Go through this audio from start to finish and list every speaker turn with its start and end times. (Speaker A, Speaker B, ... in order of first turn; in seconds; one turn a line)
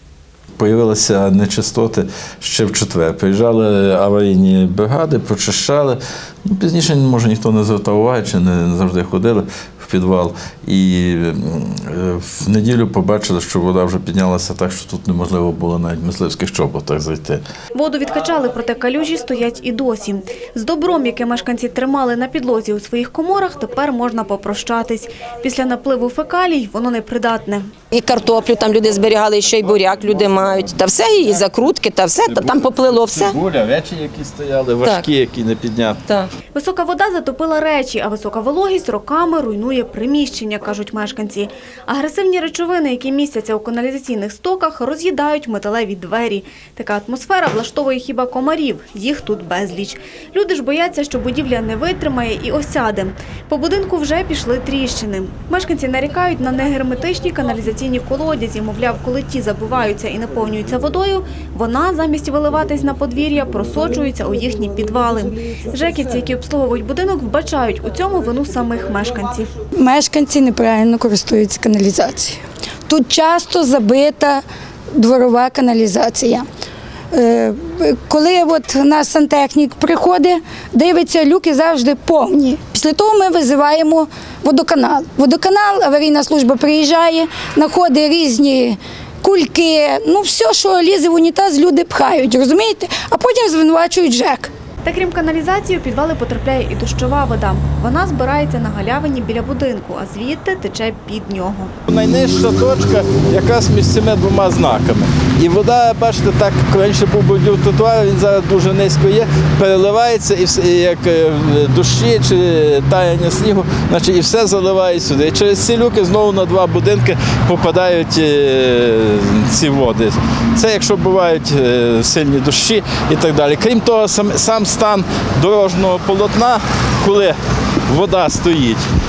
Speaker A: 0.6-17.4
Speaker B: 17.7-27.7
Speaker C: 27.9-33.3
Speaker A: 32.2-36.0
Speaker B: 36.5-69.5
Speaker D: 69.8-76.5
Speaker D: 77.1-94.5
Speaker B: 94.8-101.8
Speaker A: 101.9-128.8